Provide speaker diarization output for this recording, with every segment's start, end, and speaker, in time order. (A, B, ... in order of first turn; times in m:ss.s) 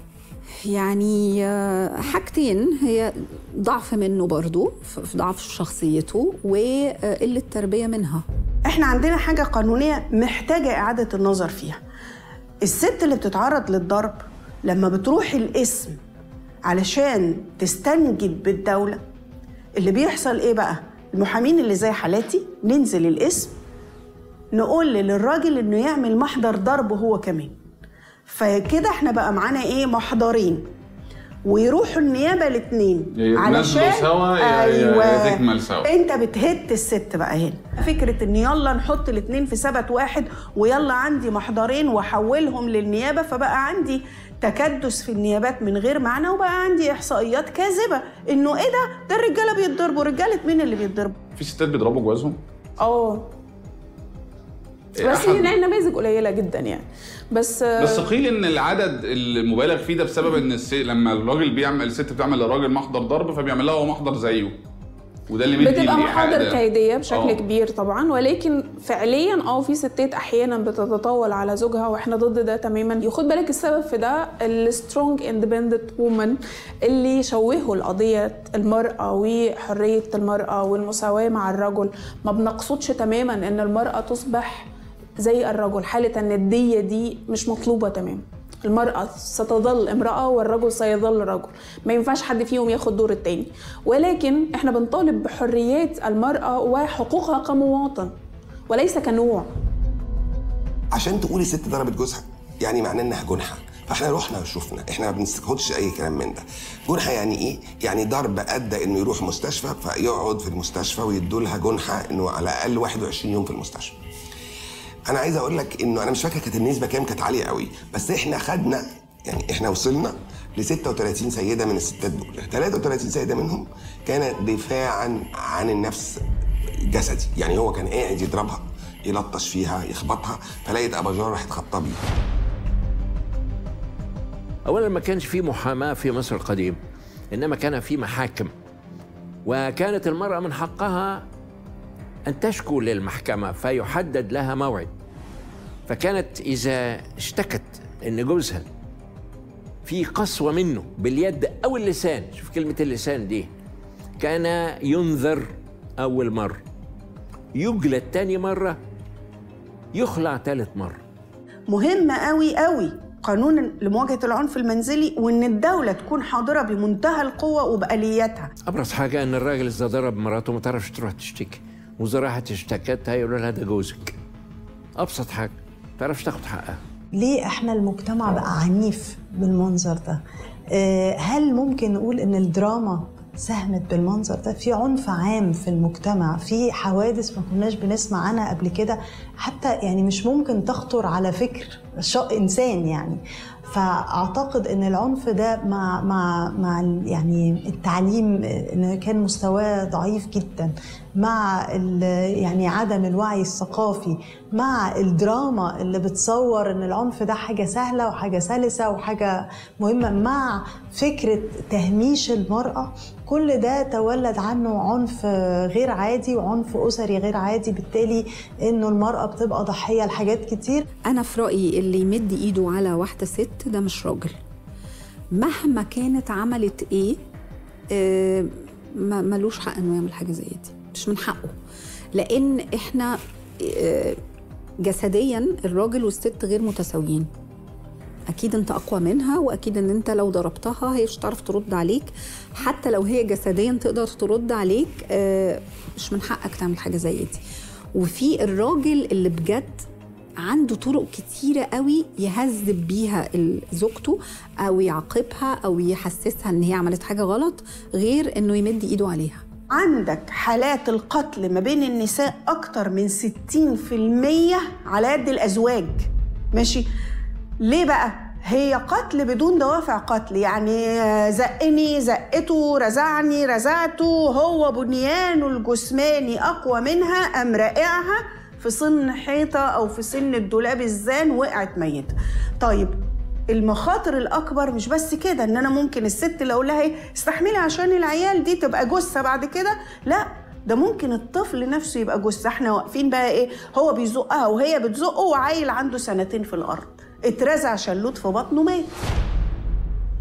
0:00.7-0:08.2 A
0:08.7-0:11.8 B
0:12.6-0:16.0 B
0:16.7-0:19.0 B
0:19.8-0:23.5 B
0:24.5-0:27.5 B
0:28.3-0:30.6 B
0:31.5-0:51.2 B
0:33.1-0:35.9 C
0:51.4-0:52.4 C
0:52.8-0:53.3 D
0:55.0-0:55.5 C
0:55.0-0:58.1 D
0:57.8-1:04.6 C
1:05.3-1:07.4 C
1:05.6-1:24.7 D
1:25.2-1:38.1 D
1:38.7-1:39.5 D
1:41.0-1:42.1 A
1:42.0-1:42.2 E
1:42.7-1:46.4 A
1:42.7-1:44.0 E
1:45.0-1:46.4 E
1:47.1-1:53.7 A
1:47.6-1:51.8 E
1:52.8-1:53.9 E
1:55.1-1:58.8 E
1:55.3-1:58.8 A
1:59.3-2:00.1 E
1:59.6-2:00.1 A
2:00.6-2:02.0 E
2:00.7-2:03.6 A
2:02.5-2:05.1 E
2:05.7-2:06.1 E
2:07.0-2:08.6 E
2:07.6-2:08.1 A
2:09.1-2:11.7 E
2:09.2-2:11.9 A
2:14.7-2:16.8 F
2:17.4-2:18.5 F
2:19.5-2:21.2 F
2:22.3-2:24.9 F
2:25.9-2:28.6 F
2:29.9-2:33.5 F
2:34.2-2:35.4 F
2:36.0-2:36.6 F
2:37.6-2:38.8 F
2:40.0-2:41.0 F
2:41.7-2:48.5 B
2:48.8-2:54.1 F
2:55.0-2:56.8 F
2:57.1-3:00.2 G
3:00.8-3:40.8 G
3:41.1-3:44.3 A
3:45.4-3:47.2 A
3:48.0-3:48.5 A
3:49.1-3:51.5 A
3:52.2-3:53.1 A
3:53.8-3:54.2 A
3:54.9-3:57.3 A
3:58.3-4:07.4 A
4:08.0-4:09.8 A
4:10.5-4:19.4 A
4:19.8-4:26.9 B
4:27.6-4:42.9 B
4:43.5-4:59.0 B